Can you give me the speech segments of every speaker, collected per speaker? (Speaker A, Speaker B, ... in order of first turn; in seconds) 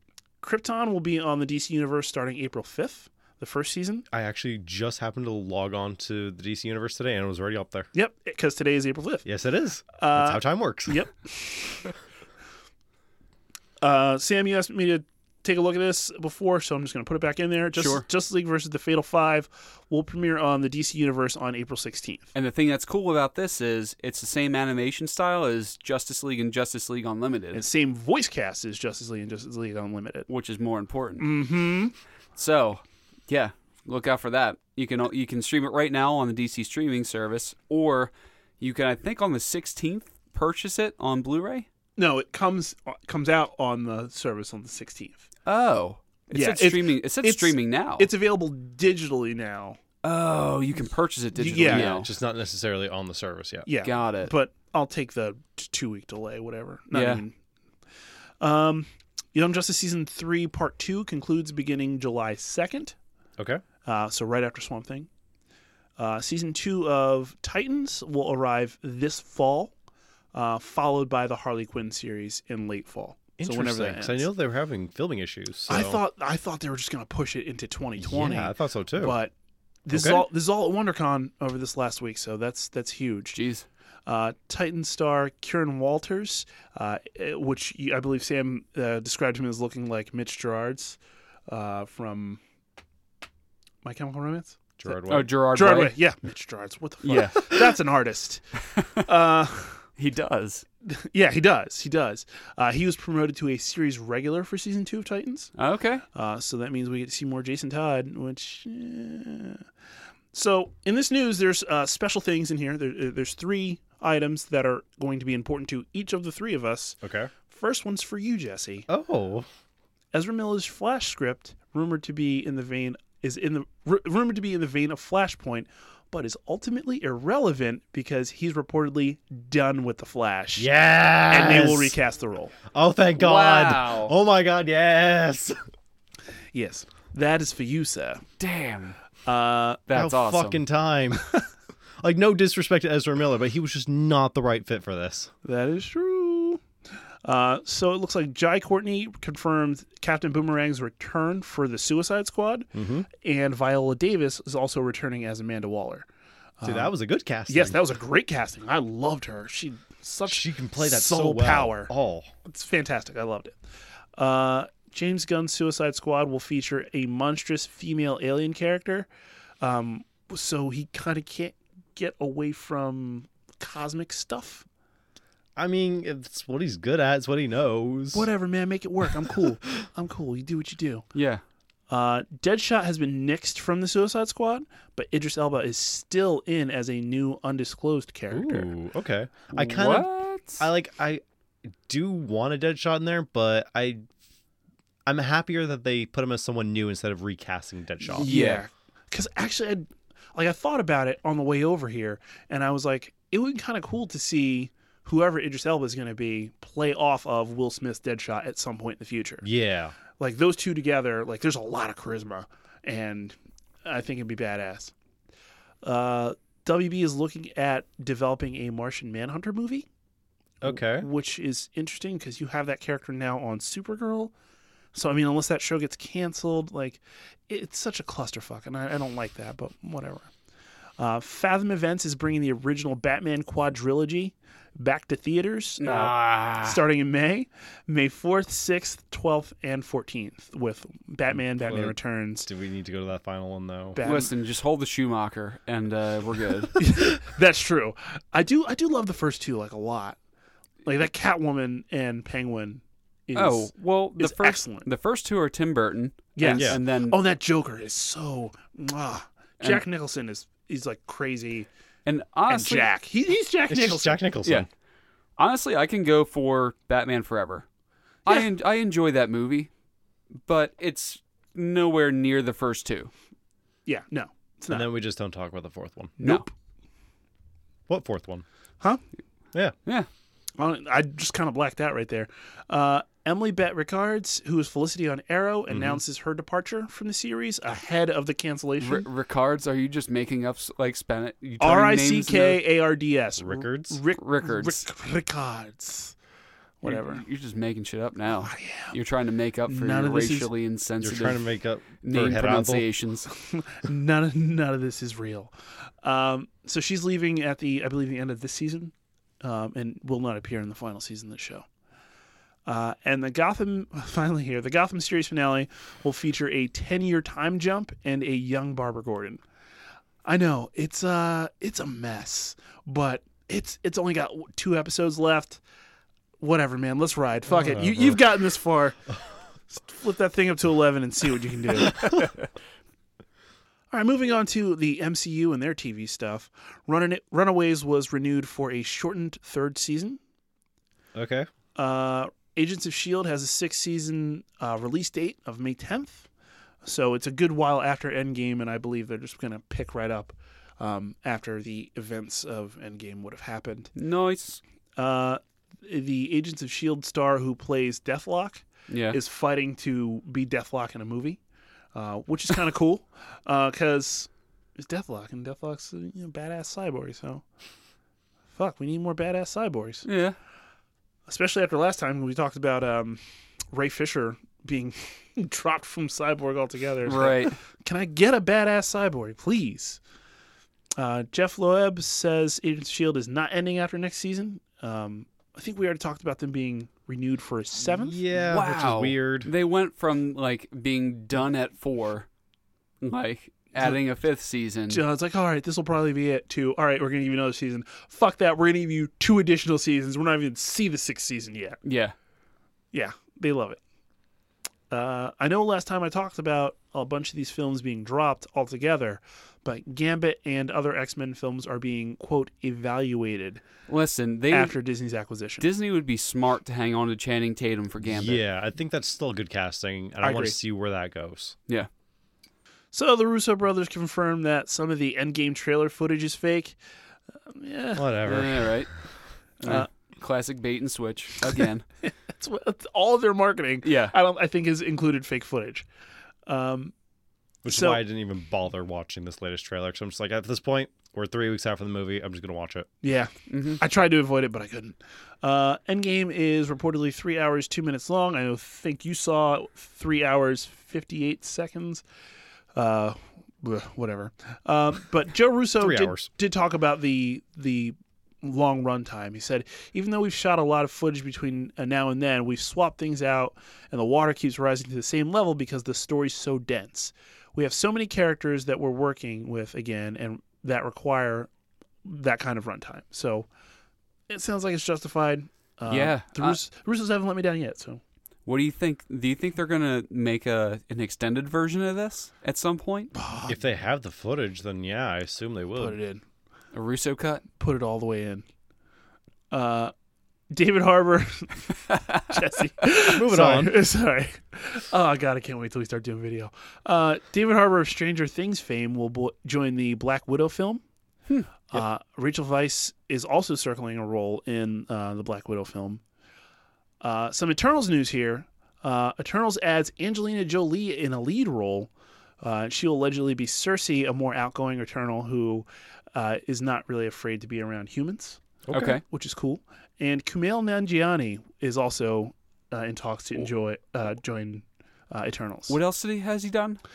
Speaker A: 0.4-4.0, 7.9-9.2, 9.9-11.9, 13.8-22.3, 27.5-30.3, 31.2-31.9, 42.0-45.2, 46.3-49.8, 51.3-52.0, 53.6-57.4, 58.4-63.0, 63.8-65.1, 66.0-69.7, 70.3-74.3, 75.7-79.3, 79.8-83.4, 84.0-92.4, 93.8-99.8, 100.8-105.5, 106.1-109.6, 110.3-118.9, 120.1-130.7, 131.3-132.6, 136.5-138.2, 139.2-139.8, 145.4-146.6, 147.2-156.1, 156.6-156.9, 157.5-161.9, 162.4-163.6, 164.2-169.1, 169.6-174.6, 178.1-181.1, 181.9-188.7, 198.1-209.4, 210.2-214.9, 215.8-219.8, 220.6-224.3, 224.9-230.3, 231.0-242.5, 243.9-244.3, 246.8-250.2, 250.8-254.9, 256.4-261.7, 262.5-264.2, 273.9-274.9, 276.2-276.5, 280.6-289.1, 291.6-296.1, 296.8-297.2, 298.4-299.0, 299.6-300.5, 303.2-311.6, 312.6-319.4, 320.2-325.6, 326.4-329.0, 329.7-332.2, 333.9-340.2, 341.7-346.3, 346.8-353.9, 354.9-361.4, 361.9-367.4, 368.5-370.1, 371.3-373.2, 373.7-380.0, 381.0-388.2, 394.9-401.8, 402.9-403.8, 404.9-413.6, 414.5-415.6, 420.2-420.6, 422.9-426.8, 427.4-428.1, 429.6-429.9, 432.0-435.9, 436.4-436.9, 437.7-438.0, 443.0-452.0, 452.7-471.5, 472.0-473.5, 474.3-478.0, 483.1-483.6, 485.8-486.2, 487.6-488.4, 489.5-489.9, 490.5-500.8, 501.7-506.0, 507.0-511.9, 512.4-518.4, 519.0-525.8
Speaker B: 4.1-7.9, 9.2-11.0, 51.6-53.7, 73.4-76.0, 78.0-79.2, 79.9-80.2, 94.8-95.3, 117.0-117.3, 118.9-119.5, 130.6-131.9, 132.7-135.6, 139.9-141.2, 142.0-145.3, 152.7-153.1, 156.6-157.8, 160.3-162.3, 175.6-178.3, 188.3-194.0, 195.1-198.3, 209.4-209.9, 220.6-221.1, 241.6-244.0, 263.7-264.7, 274.7-276.1, 277.9-278.4, 285.7-286.0, 293.4-294.0, 301.0-302.9, 327.8-328.1, 341.1-341.5, 387.8-389.5, 418.0-421.5, 427.9-428.8, 437.6-442.9, 455.8-456.3, 483.5-486.0, 492.9-493.7, 518.7-519.0
Speaker C: 17.7-18.0, 22.3-27.6, 30.3-31.2, 32.4-41.7, 45.5-48.1, 50.0-52.1, 53.8-54.3, 56.9-57.2, 83.3-83.7, 95.0-96.0, 97.0-97.6, 98.8-99.0, 100.0-100.6, 105.6-106.0, 133.2-134.1, 138.4-138.9, 139.9-140.6, 181.1-181.4, 189.5-190.6, 198.1-198.6, 235.8-236.8, 244.0-246.8, 253.3-257.2, 262.1-262.9, 265.4-267.6, 268.2-269.7, 270.4-273.1, 276.2-276.4, 288.8-292.6, 294.2-294.8, 296.9-303.3, 353.9-354.6, 358.9-359.2, 370.0-370.3, 377.1-377.6, 388.4-392.3, 393.0-395.0, 401.8-402.1, 413.9-414.8, 415.6-418.4, 428.2-428.9, 429.6-431.9, 433.8-434.1, 443.5-443.8, 475.9-476.6, 478.4-483.1, 486.7-487.4, 518.7-519.0, 525.7-526.8